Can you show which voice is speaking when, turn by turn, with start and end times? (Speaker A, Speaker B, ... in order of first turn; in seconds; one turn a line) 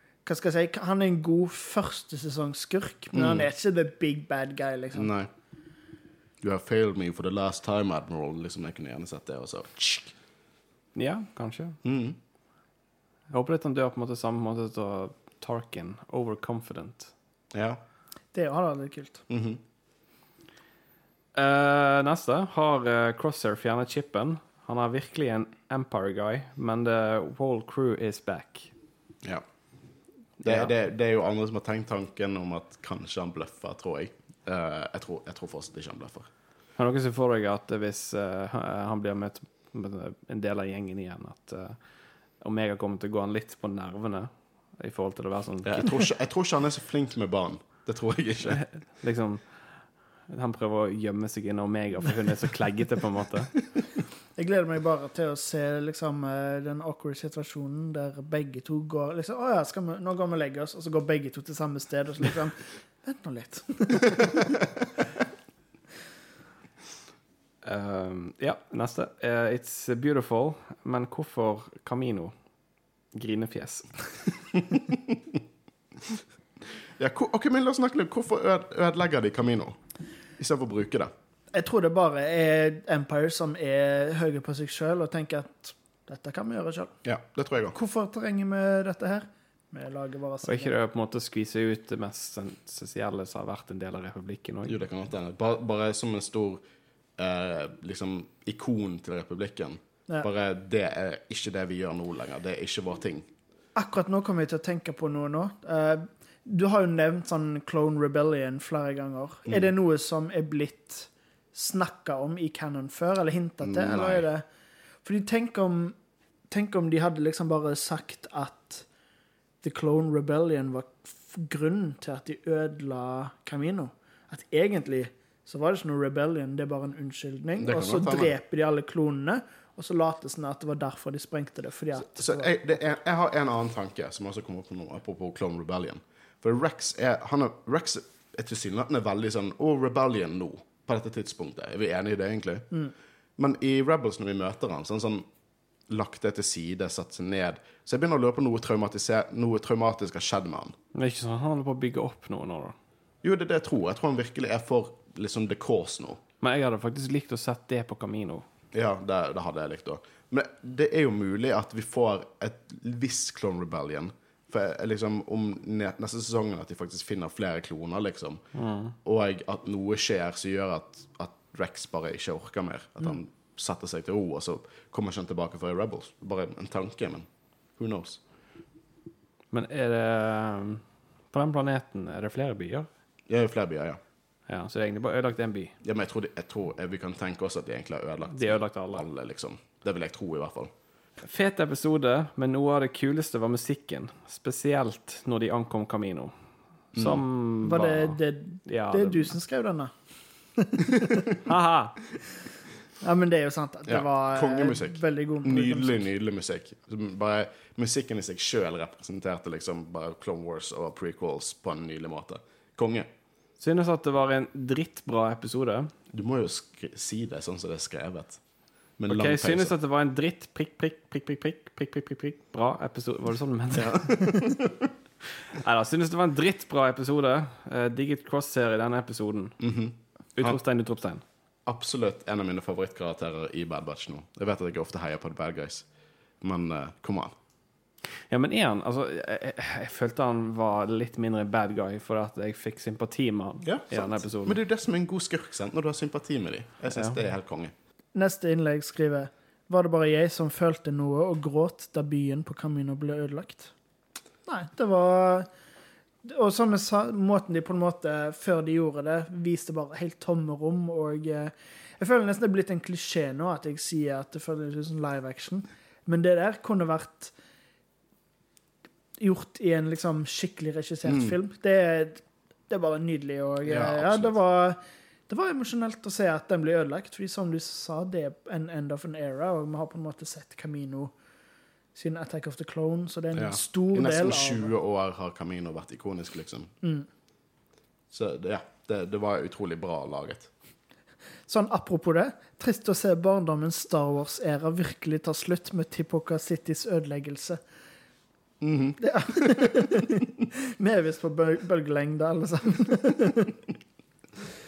Speaker A: 0.2-5.1
Speaker B: 3.1-3.5
Speaker B: 5.0-5.3
Speaker B: 6.4-10.1
Speaker C: 10.9-11.8
Speaker B: 11.8-12.2
Speaker C: 13.3-17.1
Speaker B: 17.5-17.8
Speaker A: 18.3-19.2
Speaker B: 19.3-19.6
Speaker C: 21.4-28.7
Speaker C: 30.4-30.7
Speaker B: 30.4-36.3
Speaker C: 36.8-41.8
Speaker C: 42.4-46.0
Speaker B: 45.6-48.6
Speaker C: 48.5-49.5
Speaker C: 50.3-53.6
Speaker A: 54.4-64.5
Speaker C: 67.6-72.3
Speaker C: 73.1-74.1
Speaker B: 74.8-75.4
Speaker B: 77.0-79.8
Speaker B: 80.4-81.1
Speaker A: 81.5-86.9
Speaker B: 87.0-87.8
Speaker A: 87.7-90.8
Speaker C: 90.4-94.8
Speaker B: 94.7-96.6
Speaker B: 97.2-103.3
Speaker A: 103.8-114.5
Speaker B: 113.6-114.2
Speaker A: 115.0-116.0
Speaker A: 116.5-118.9
Speaker A: 119.6-132.5
Speaker B: 127.6-128.3
Speaker B: 132.0-142.8
Speaker B: 143.4-145.2
Speaker B: 145.9-150.8
Speaker C: 150.9-152.8
Speaker B: 153.2-156.2
Speaker C: 156.4-158.4
Speaker B: 158.7-168.4
Speaker C: 168.6-168.9
Speaker B: 169.0-178.2
Speaker C: 179.5-182.9
Speaker B: 183.3-184.0
Speaker C: 184.5-185.8
Speaker B: 185.8-190.7
Speaker C: 188.3-189.1
Speaker C: 191.2-196.3
Speaker C: 196.9-199.3
Speaker B: 196.9-197.2
Speaker A: 197.6-199.9
Speaker A: 200.6-201.3
Speaker C: 201.4-202.0
Speaker A: 203.0-206.0
Speaker B: 203.9-213.1
Speaker C: 213.6-215.9
Speaker B: 216.1-218.4
Speaker B: 219.0-219.7
Speaker C: 219.1-224.3
Speaker B: 223.7-224.9
Speaker C: 225.4-229.6
Speaker B: 229.6-230.6
Speaker C: 230.4-231.2
Speaker B: 231.7-235.9
Speaker B: 236.4-237.3
Speaker C: 238.3-244.6
Speaker B: 243.6-247.7
Speaker A: 248.2-253.7
Speaker A: 254.5-255.5
Speaker A: 256.2-267.3
Speaker A: 269.2-281.1
Speaker B: 271.1-271.4
Speaker B: 273.6-274.4
Speaker A: 281.9-284.7
Speaker B: 283.4-286.7
Speaker A: 286.8-287.1
Speaker B: 288.1-290.5
Speaker A: 291.5-297.6
Speaker B: 298.6-299.7
Speaker A: 299.0-303.6